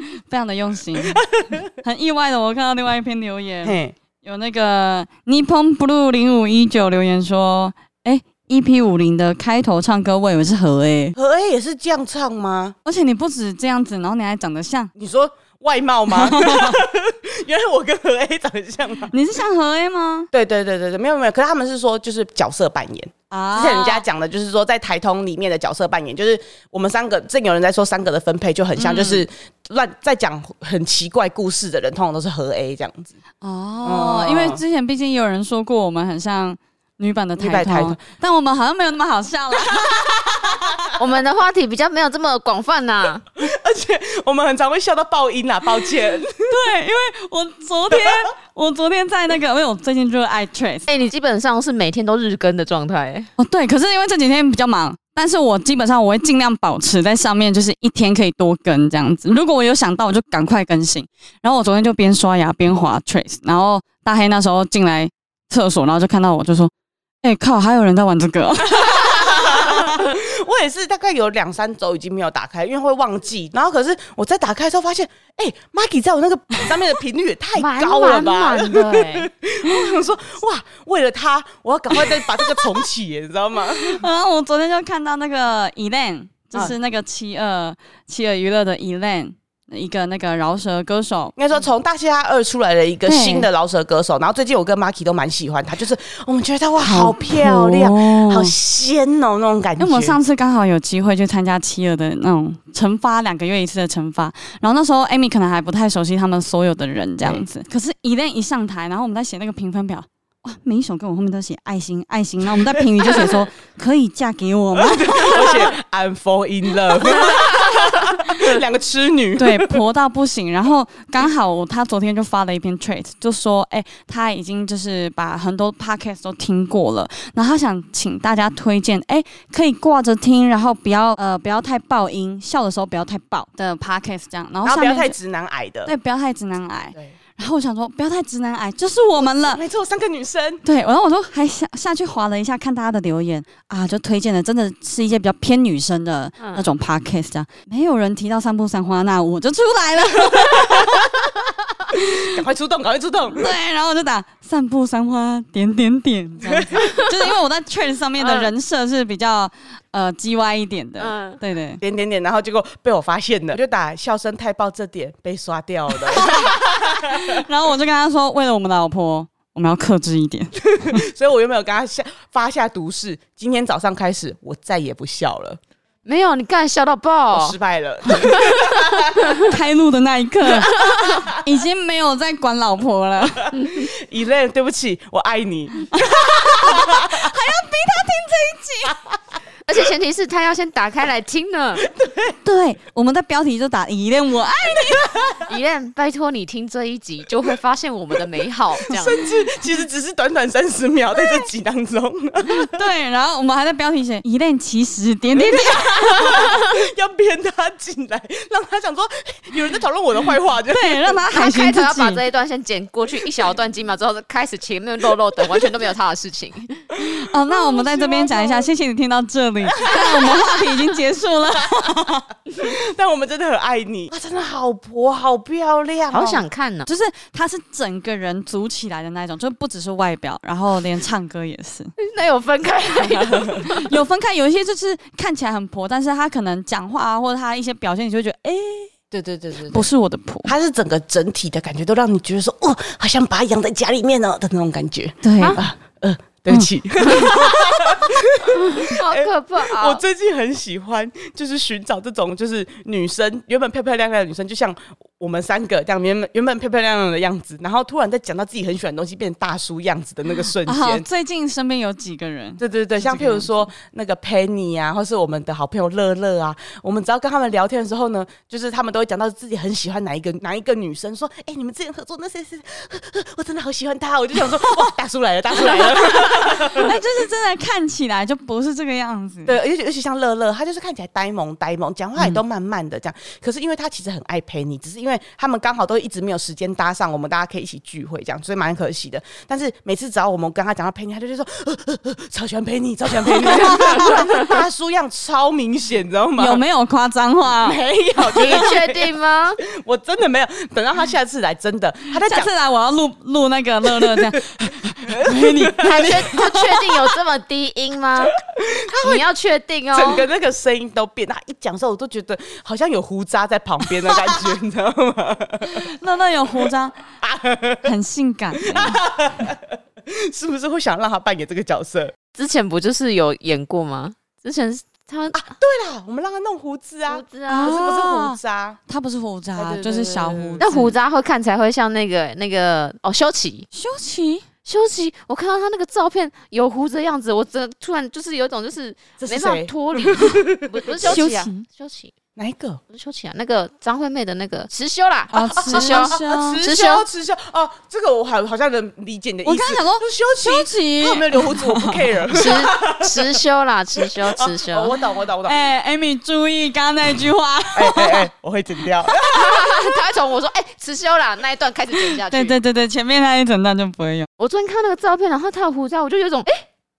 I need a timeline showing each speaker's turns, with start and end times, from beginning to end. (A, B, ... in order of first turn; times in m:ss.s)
0:00.1-0:11.2 A
0:01.0-0:01.7 B
0:03.6-0:04.0 B
0:11.2-0:12.8 B
0:12.9-0:14.9 A
0:15.0-0:19.1 B
0:16.1-0:16.8 A
0:19.1-0:20.3 A
0:20.3-0:33.2 B
0:23.3-0:24.0 A
0:28.8-0:29.3 A
0:33.4-0:40.8 A
0:33.8-0:34.6 B
0:37.4-0:38.0 B
0:40.0-0:41.0 B
0:41.0-0:43.3 C
0:43.4-0:46.6 B
0:46.5-0:50.9 A
0:50.9-0:53.3 C
0:53.4-1:06.7 A
1:07.2-1:10.0 A
1:08.7-1:24.0 B
1:17.6-1:19.3 C
1:19.7-1:19.9 A
1:22.4-1:22.7 A
1:23.7-1:31.4 A
1:31.4-1:40.2 B
1:33.1-1:33.5 A
1:36.8-1:38.5 A
1:39.8-1:55.7 A
1:53.1-1:53.4 B
1:54.8-1:59.8 B
1:59.4-2:15.1 A
2:14.6-2:15.9 B
2:15.9-2:19.6 A
2:19.4-2:20.6 B
2:20.6-2:31.2 A
2:26.4-2:26.6 C
2:30.3-2:31.3 B
2:31.9-2:32.3 A
2:32.1-2:33.5 B
2:33.3-2:41.8 A
2:36.5-2:36.8 B
2:38.2-2:38.5 C
2:41.0-2:41.4 C
2:41.8-2:47.4 B
2:46.1-2:51.0 A
2:50.6-2:55.6 B
2:56.1-2:57.6 C
2:57.3-2:59.3 B
2:58.2-2:59.4 C
2:59.4-3:03.6 A
3:00.6-3:01.2 C
3:03.5-3:07.3 B
3:05.9-3:09.0 A
3:09.7-3:11.8 C
3:11.8-3:12.4 B
3:12.4-3:15.3 A
3:15.0-3:15.4 B
3:15.5-3:19.2 C
3:18.9-3:22.7 B
3:21.2-3:21.5 A
3:22.5-3:26.5 A
3:25.4-3:31.2 B
3:30.7-3:32.2 A
3:31.3-3:36.8 C
3:37.0-3:42.2 A
3:37.5-3:38.7 B
3:39.8-3:40.5 B
3:42.6-3:46.4 B
3:46.1-3:46.9 C
3:46.9-3:51.9 A
3:52.0-3:53.8 C
3:53.6-3:58.9 A
3:59.1-3:59.8 C
3:59.7-4:00.5 A
4:00.4-4:21.1 B
4:05.2-4:05.6 A
4:06.5-4:07.5 A
4:08.7-4:10.0 C
4:20.6-4:23.6 A
4:22.6-4:37.0 B
4:35.7-4:39.6 A
4:39.5-4:56.6 B
4:53.2-4:54.4 A
4:56.4-4:58.7 A
4:57.6-4:59.1 B
4:58.4-4:59.6 C
4:59.6-5:02.5 B
5:02.2-5:06.8 A
5:05.0-5:06.4 B
5:05.8-5:08.4 C
5:08.5-5:09.2 B
5:09.0-5:10.2 C
5:09.9-5:15.9 B
5:15.6-5:17.0 A
5:17.2-5:17.9 B
5:17.8-5:19.0 A
5:18.6-5:22.2 B
5:22.4-5:25.5 C
5:25.3-5:28.8 B
5:27.1-5:27.8 C
5:27.5-5:31.0 A
5:29.6-5:30.7 B
5:30.6-5:33.7 C
5:33.7-5:34.5 A
5:34.7-5:42.1 C
5:39.2-5:41.2 B
5:41.0-5:41.7 A
5:42.4-5:42.8 B
5:42.9-5:47.1 C
5:45.3-5:46.6 A
5:45.4-5:53.4 B
5:49.4-5:52.2 A
5:52.3-5:54.9 C
5:54.0-5:55.6 B
5:55.4-5:58.3 A
5:57.7-5:59.8 B
5:59.3-6:02.6 C
6:02.3-6:04.3 A
6:04.4-6:06.6 C